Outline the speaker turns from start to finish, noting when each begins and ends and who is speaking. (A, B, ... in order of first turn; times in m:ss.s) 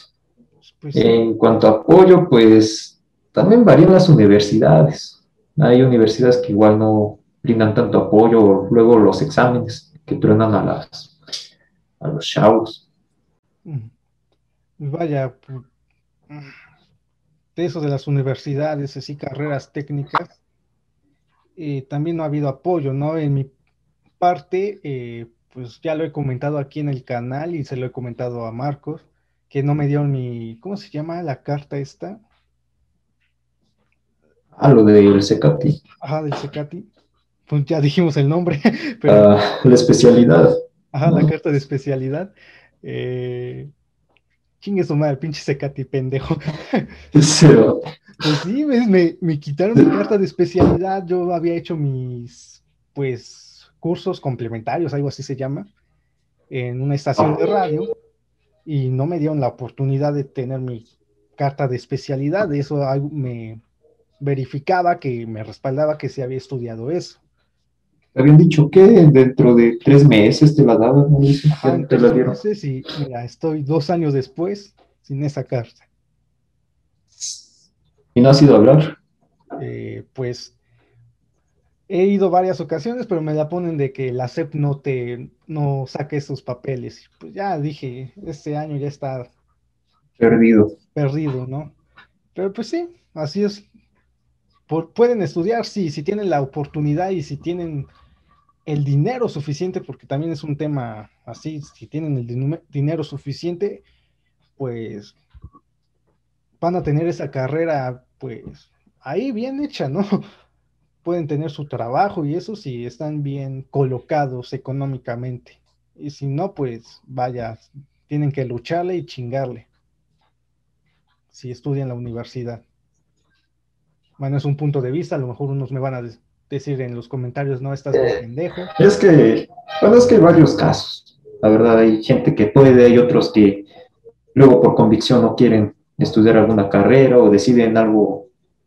0:00.6-0:01.2 A
0:00.9-0:11.1 B
0:12.0-0:12.8 B
0:13.6-0:13.9 A
0:14.8-0:15.6 A
0:17.6-0:20.4 A
0:21.6-0:23.5 A
0:24.2-0:32.2 A
0:34.6-0:35.8 B
0:36.0-0:36.9 A
0:37.5-0:39.3 A
0:39.1-0:40.5 B
0:40.9-0:42.3 A
0:41.0-0:41.3 B
0:42.8-0:43.7 A
0:44.6-0:46.9 A
0:47.1-0:47.8 B
0:48.2-0:55.7 A
0:56.5-0:57.9 A
0:58.7-1:03.6 A
1:04.2-1:07.2 A
1:08.2-1:12.4 B
1:11.5-1:15.9 A
1:18.2-1:19.0 B
1:19.6-1:20.5 A
1:21.9-1:29.3 A
1:30.2-1:30.7 B
1:31.0-1:31.7 A
1:32.3-1:33.7 A
1:34.7-1:37.9 A
1:38.7-1:43.8 A
1:44.6-1:45.2 A
1:46.6-1:50.2 A
1:51.0-1:59.7 A
2:01.3-2:02.6 A
2:04.2-2:08.7 A
2:07.9-2:08.2 B
2:08.8-2:13.7 B
2:14.3-2:18.3 B